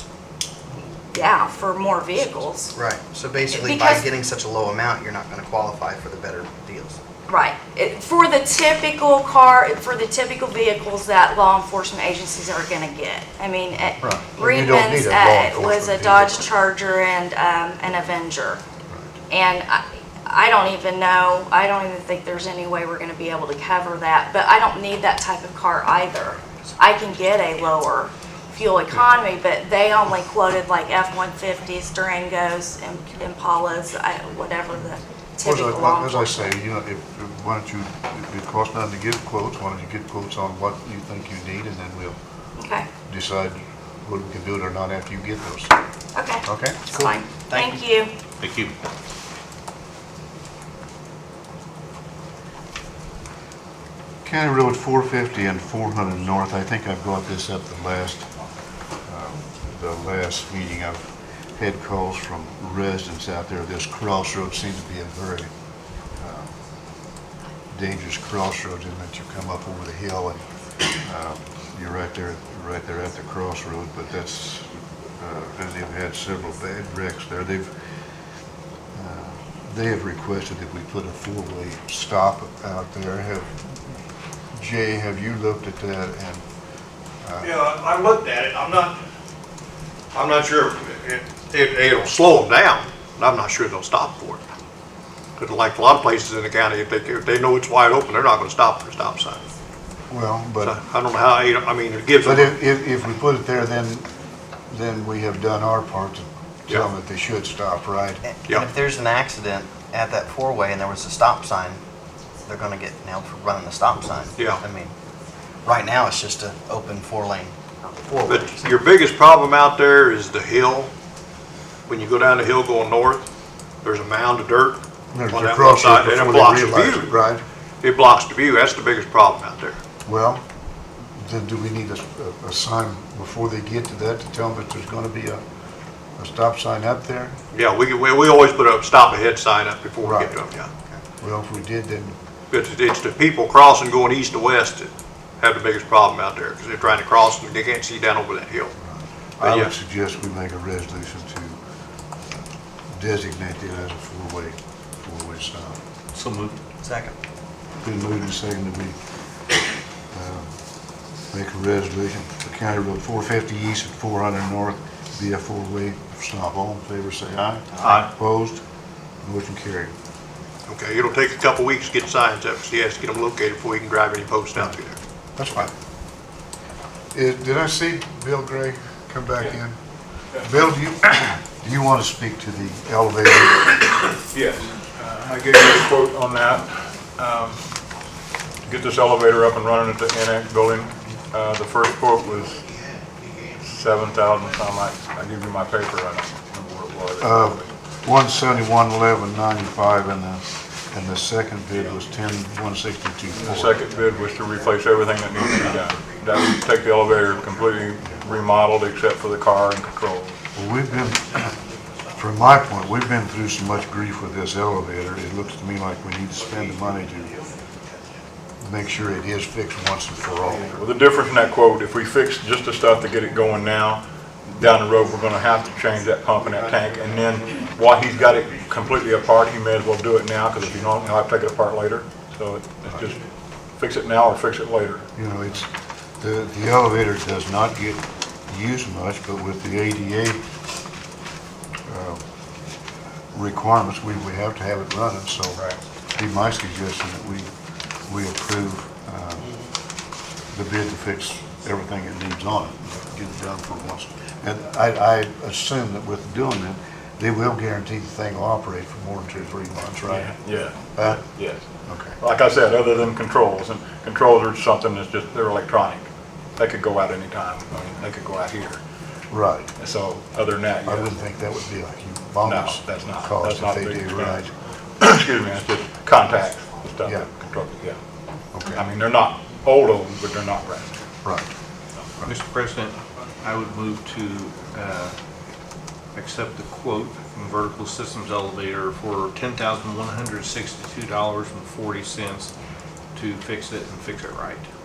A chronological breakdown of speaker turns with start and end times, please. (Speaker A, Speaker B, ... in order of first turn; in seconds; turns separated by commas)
Speaker A: 1.1-2.8, Speaker B: 2.8-7.0, Speaker A: 3.5-4.1, Speaker A: 7.3-18.6, Speaker C: 14.0-16.5, Speaker C: 18.9-19.2, Speaker A: 19.3-36.5, Speaker C: 35.4-42.2, Speaker A: 42.6-42.9, Speaker C: 43.1-45.7, Speaker A: 46.1-48.1, Speaker C: 46.4-46.8, Speaker B: 46.9-47.8, Speaker D: 48.4-48.7, Speaker C: 54.2-58.3, Speaker C: 59.0-65.5, Speaker C: 66.2-66.5, Speaker C: 67.7-77.7, Speaker C: 78.9-83.9, Speaker C: 84.5-86.5, Speaker C: 87.2-87.5, Speaker E: 87.4-89.0, Speaker E: 90.1-94.5, Speaker E: 95.4-99.4, Speaker C: 100.1-100.8, Speaker E: 100.6-102.6, Speaker C: 102.2-104.2, Speaker C: 104.7-108.3, Speaker B: 108.3-111.8, Speaker E: 108.5-108.7, Speaker B: 112.5-114.9, Speaker E: 114.4-114.6, Speaker B: 115.7-118.8, Speaker E: 118.3-120.9, Speaker E: 121.9-123.3, Speaker E: 123.8-127.1, Speaker C: 125.1-127.4, Speaker E: 127.8-129.8, Speaker C: 130.1-130.4, Speaker C: 131.2-135.4, Speaker C: 136.2-137.4, Speaker E: 137.5-140.7, Speaker C: 140.0-140.3, Speaker C: 141.2-142.2, Speaker E: 142.5-148.7, Speaker C: 148.8-151.6, Speaker E: 149.4-149.7, Speaker C: 152.9-155.8, Speaker D: 156.1-156.6, Speaker B: 156.8-157.2, Speaker C: 157.8-159.0, Speaker C: 160.1-160.5, Speaker C: 161.3-168.6, Speaker D: 167.8-168.1, Speaker C: 169.2-169.9, Speaker E: 170.7-175.0, Speaker C: 175.4-175.7, Speaker C: 177.1-179.8, Speaker C: 180.4-183.8, Speaker F: 184.3-187.7, Speaker F: 188.6-192.6, Speaker F: 193.6-197.7, Speaker C: 197.2-203.8, Speaker F: 203.3-210.4, Speaker E: 204.3-204.7, Speaker E: 207.2-207.6, Speaker C: 210.6-211.5, Speaker C: 212.2-217.4, Speaker C: 218.6-220.9, Speaker F: 220.6-233.2, Speaker F: 233.8-235.1, Speaker C: 235.2-240.4, Speaker C: 241.9-242.2, Speaker C: 243.3-247.5, Speaker C: 248.1-249.6, Speaker C: 250.5-260.3, Speaker F: 260.1-261.7, Speaker C: 260.9-261.2, Speaker C: 261.9-262.2, Speaker F: 262.2-268.8, Speaker C: 269.3-269.7, Speaker F: 269.8-271.1, Speaker C: 270.8-274.5, Speaker F: 272.4-278.0, Speaker C: 278.5-278.9, Speaker F: 278.7-281.1, Speaker C: 281.2-281.5, Speaker D: 282.2-285.2, Speaker D: 286.1-292.5, Speaker D: 293.1-294.7